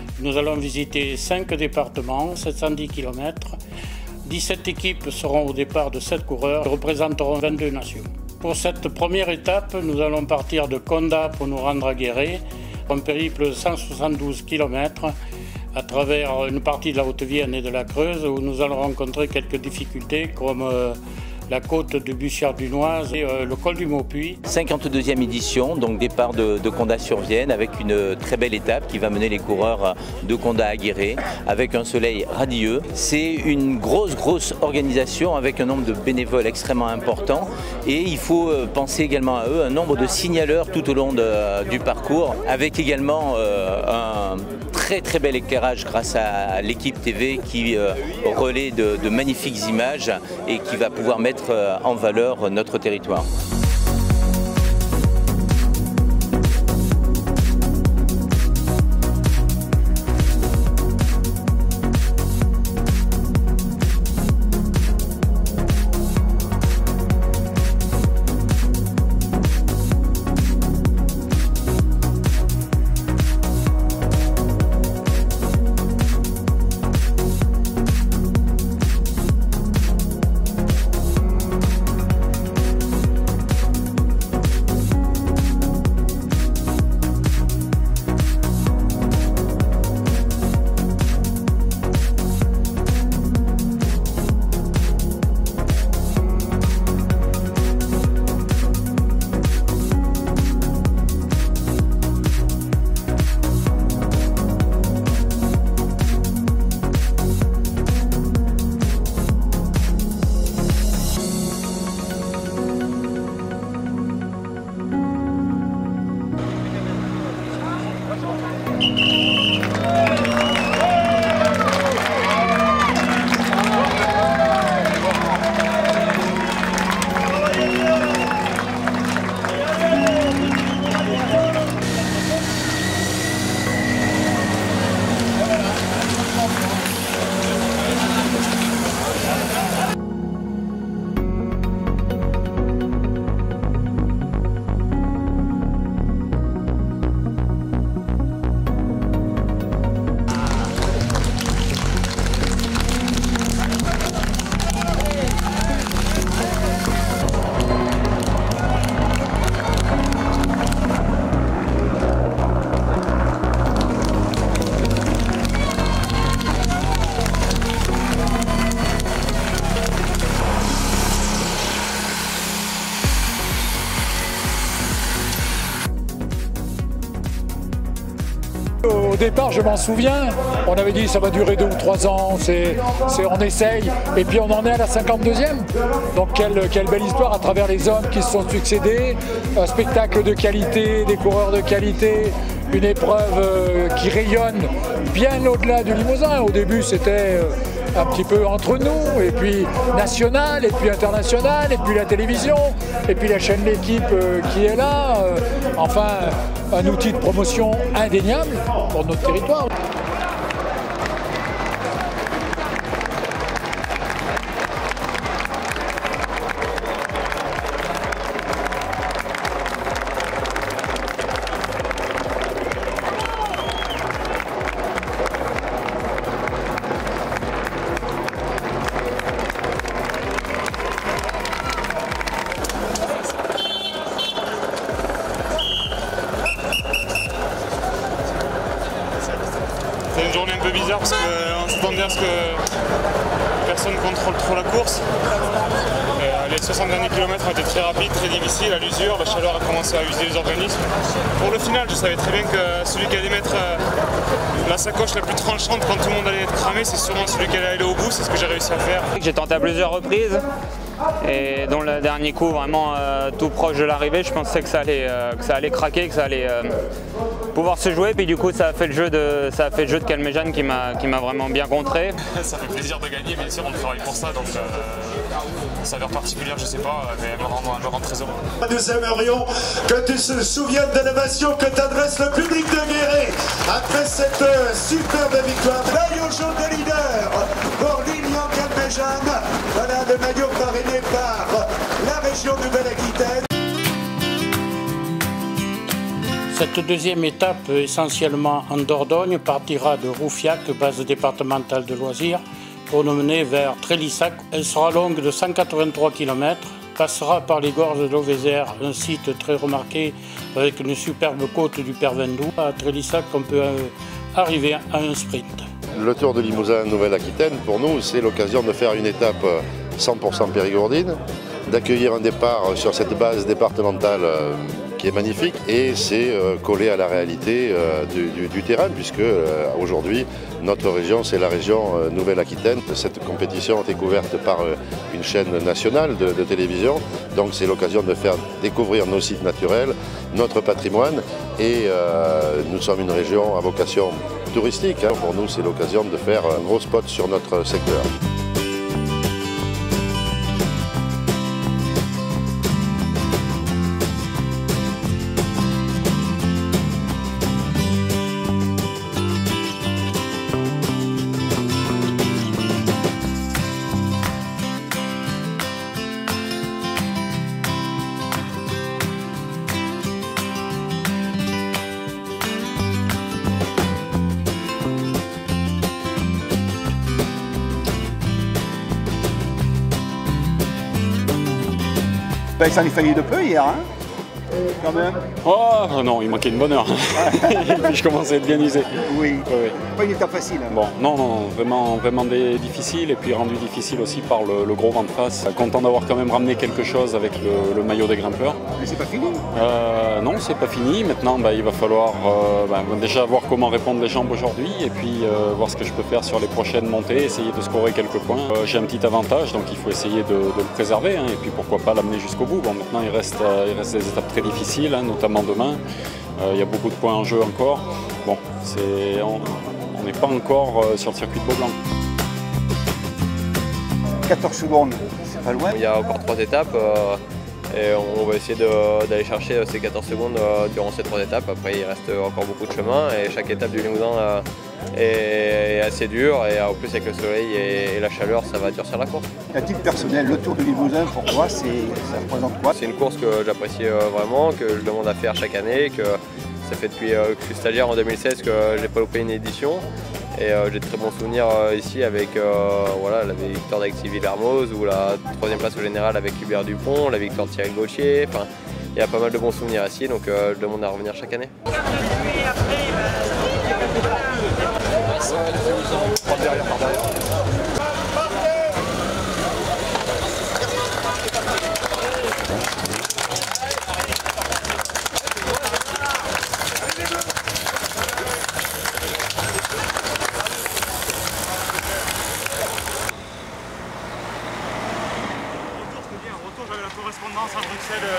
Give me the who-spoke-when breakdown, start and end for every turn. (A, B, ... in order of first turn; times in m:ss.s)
0:00.2-0:03.6 A
0:04.2-0:15.1 A
0:15.7-0:21.0 A
0:21.5-0:24.4 A
0:24.4-0:53.3 B
2:58.8-3:29.7 C
4:00.1-4:02.6 D
4:03.6-4:05.0 D
4:06.2-4:10.8 D
4:11.4-4:13.8 D
4:14.6-4:19.1 D
4:19.2-4:20.4 E
4:21.2-4:26.6 E
4:27.6-4:32.1 E
4:32.2-4:35.2 D
4:35.8-4:38.4 D
4:38.6-4:53.4 F
4:56.5-5:15.6 A
5:15.9-5:48.1 G
6:22.6-6:23.8 H
6:24.8-6:25.2 H
6:25.4-6:29.0 I
6:27.2-6:27.5 H
6:29.0-6:30.7 H
6:29.5-6:29.8 I
6:30.7-6:38.6 I
6:38.8-6:39.4 H
6:39.5-6:55.8 I
6:56.4-7:01.7 I
7:04.3-7:05.8 H
7:05.7-7:07.2 J
7:07.7-7:19.2 J
7:19.5-7:22.8 H
7:22.7-7:41.5 J